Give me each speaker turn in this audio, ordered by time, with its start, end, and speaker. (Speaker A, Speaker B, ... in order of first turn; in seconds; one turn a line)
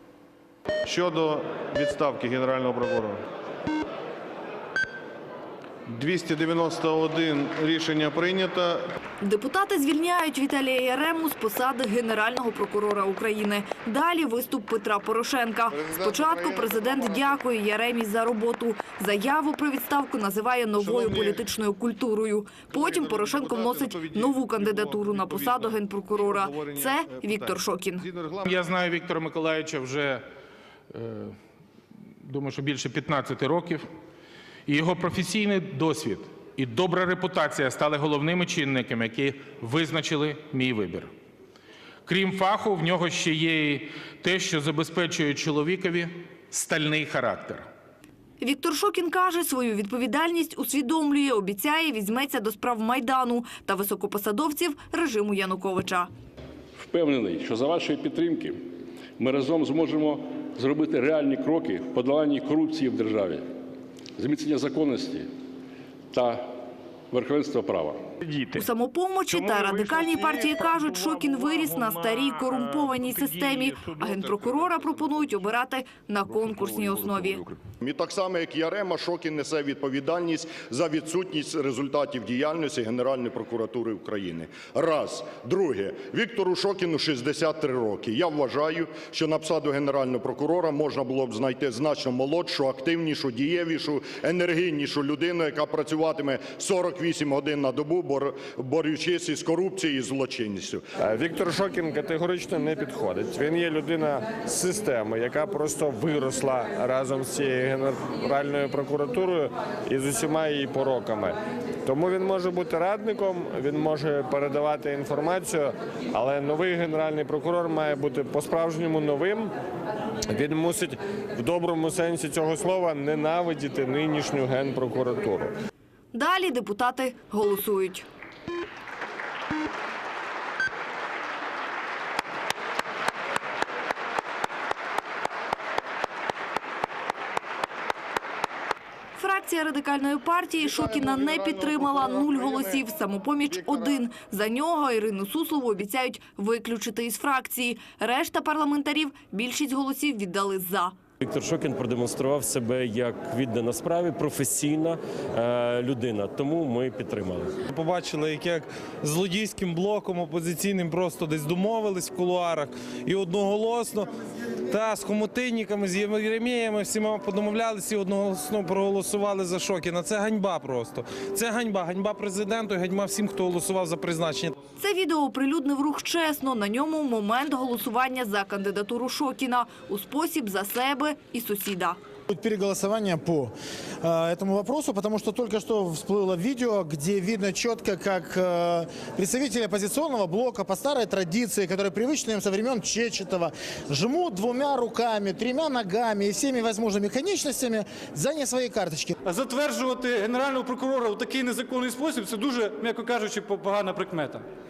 Speaker A: 0.8-3.2
Speaker A: 5.9-8.8
Speaker B: 9.2-28.1
Speaker A: 15.7-17.4
Speaker A: 20.8-21.4
Speaker A: 22.7-28.4
Speaker C: 28.4-30.2
Speaker C: 30.9-31.4
Speaker C: 32.2-33.9
Speaker C: 34.7-41.1
Speaker C: 42.0-47.7
Speaker B: 48.4-56.1
Speaker D: 56.8-58.6
Speaker D: 59.2-63.4
Speaker D: 64.2-65.2
Speaker D: 66.1-66.4
Speaker D: 67.1-68.0
Speaker B: 68.5-77.5
Speaker C: 71.9-72.6
Speaker E: 77.8-100.9
Speaker F: 101.0-119.5
Speaker F: 120.3-125.5
Speaker B: 126.1-128.0
Speaker B: 139.2-151.0
Speaker G: 151.2-157.6
Speaker H: 157.7-164.1
Speaker H: 164.7-174.5
Speaker B: 174.8-182.0
Speaker I: 182.3-199.1
Speaker J: 199.2-204.4